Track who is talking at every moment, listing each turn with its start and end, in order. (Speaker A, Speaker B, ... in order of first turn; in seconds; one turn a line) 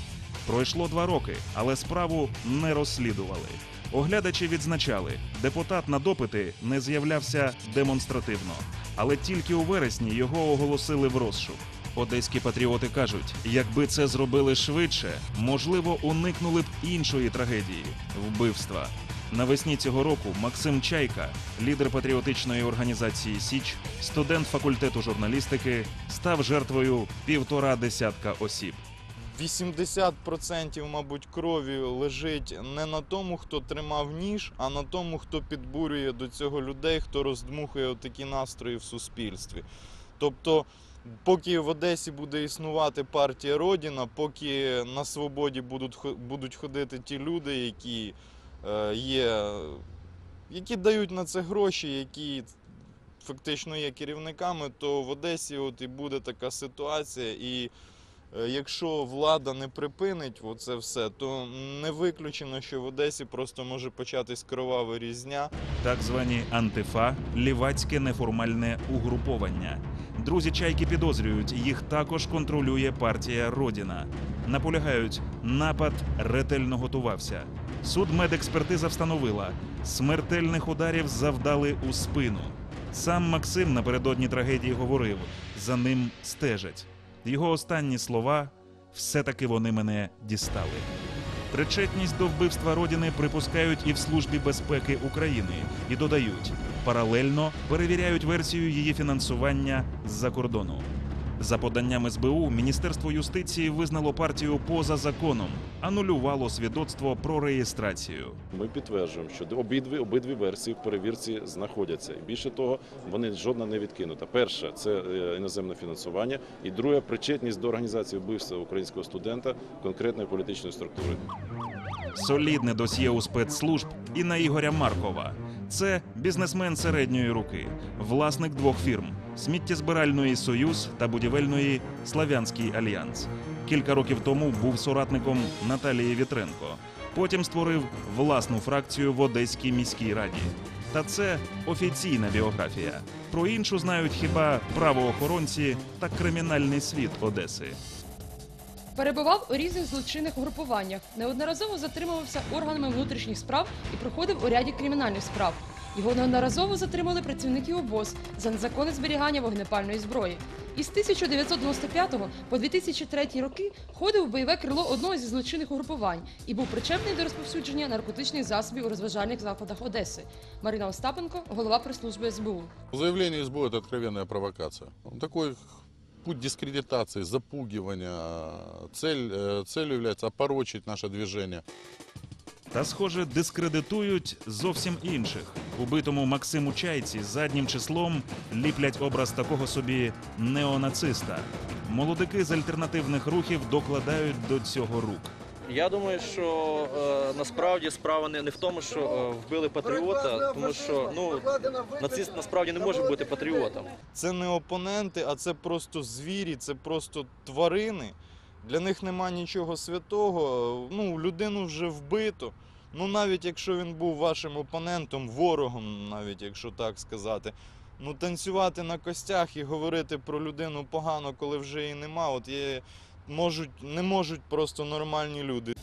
Speaker A: 0.5-28.8
Speaker B: 29.3-39.6
Speaker B: 40.2-49.8
Speaker B: 50.5-52.6
Speaker B: 53.2-57.7
Speaker B: 58.3-65.5
Speaker A: 65.8-90.9
Speaker A: 91.5-100.9
Speaker A: 101.4-108.4
Speaker C: 108.5-121.2
Speaker A: 122.1-147.8
Speaker D: 149.0-172.7
Speaker E: 172.9-181.6
Speaker A: 182.7-195.3
Speaker F: 195.7-203.9
Speaker B: 204.1-225.7